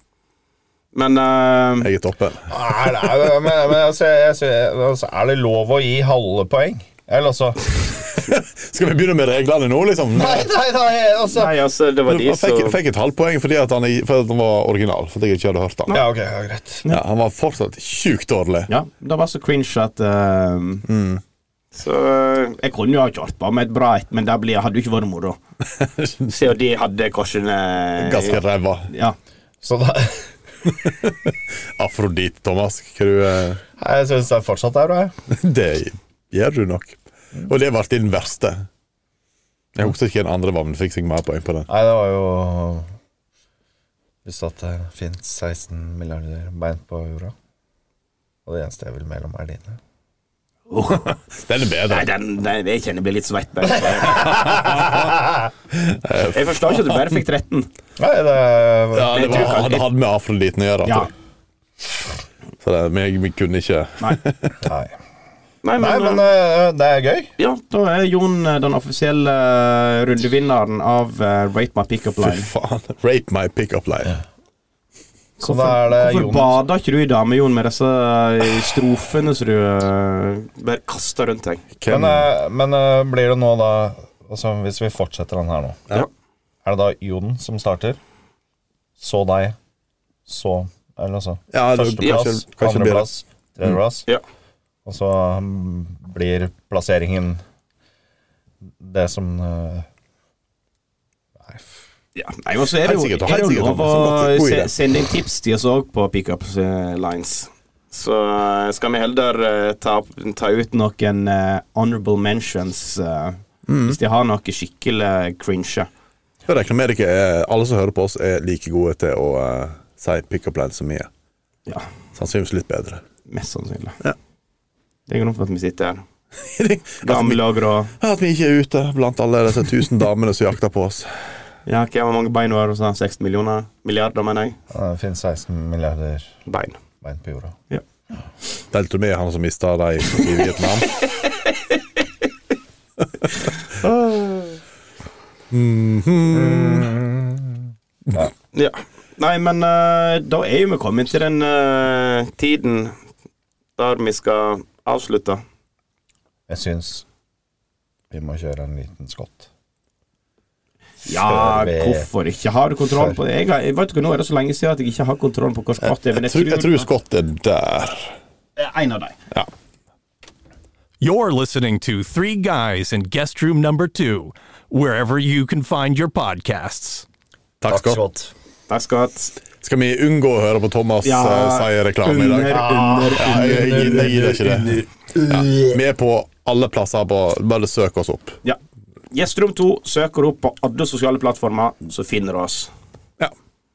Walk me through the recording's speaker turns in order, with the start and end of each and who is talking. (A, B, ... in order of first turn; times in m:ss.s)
0:00.9-0:01.9 A
0:01.8-0:02.5 B
0:02.5-0:07.6 C
0:08.2-0:10.5 B
0:10.2-0:11.5 C
0:11.3-0:12.8 A
0:12.1-0:16.0 B
0:15.9-0:16.8 C
0:16.9-0:18.7 B
0:18.7-0:20.9 A
0:20.9-0:21.2 B
0:21.7-0:25.4 A
0:25.7-0:26.3 B
0:26.3-0:29.2 A
0:28.0-0:28.9 B
0:29.6-0:30.3 C
0:30.7-0:33.6 B
0:33.8-0:35.1 C
0:35.3-0:38.7 B
0:39.8-0:41.7 B
0:41.7-0:42.9 C
0:44.2-0:47.3 C
0:48.5-0:49.8 C
0:50.7-0:51.1 A
0:50.9-0:52.1 B
0:51.9-0:54.6 A
0:54.1-0:55.1 B
0:55.7-0:57.2 B
0:56.2-0:57.7 A
0:58.0-0:59.4 C
0:58.9-1:01.1 B
0:59.1-0:59.8 A
1:00.8-1:01.1 A
1:02.6-1:04.6 B
1:04.6-1:04.9 C
1:05.6-1:06.2 A
1:05.8-1:07.3 C
1:07.4-1:12.5 A
1:12.2-1:14.2 B
1:15.4-1:16.6 C
1:15.4-1:21.6 A
1:21.8-1:22.3 B
1:21.9-1:25.8 C
1:26.6-1:28.0 C
1:29.0-1:29.6 C
1:30.3-1:34.1 C
1:31.5-1:33.1 B
1:34.8-1:37.4 C
1:38.8-1:39.9 C
1:41.4-1:41.7 C
1:42.2-1:55.9 A
1:42.8-1:44.7 B
1:53.7-1:54.0 B
1:56.5-2:01.1 B
2:02.2-2:03.0 B
2:03.3-2:04.0 A
2:05.1-2:06.0 A
2:06.4-2:07.4 B
2:07.0-2:07.9 A
2:08.0-2:11.1 B
2:11.7-2:14.6 A
2:14.7-2:16.3 C
2:16.5-2:16.8 A
2:17.0-2:17.6 C
2:18.7-2:20.9 B
2:23.7-2:24.6 A
2:25.5-2:26.9 B
2:26.3-2:28.3 C
2:28.5-2:33.0 A
2:33.8-2:35.4 A
2:36.5-2:37.0 C
2:38.1-2:39.5 C
2:41.1-2:46.8 A
2:41.1-2:42.1 C
2:42.9-2:43.2 C
2:45.8-2:48.2 B
2:48.6-2:49.2 A
2:51.0-2:57.0 D
2:57.6-2:58.0 B
2:57.7-2:58.3 C
2:58.7-2:59.3 A
2:59.6-3:02.6 B
3:01.0-3:04.1 A
3:02.5-3:05.8 C
3:03.2-3:08.4 B
3:09.1-3:12.7 A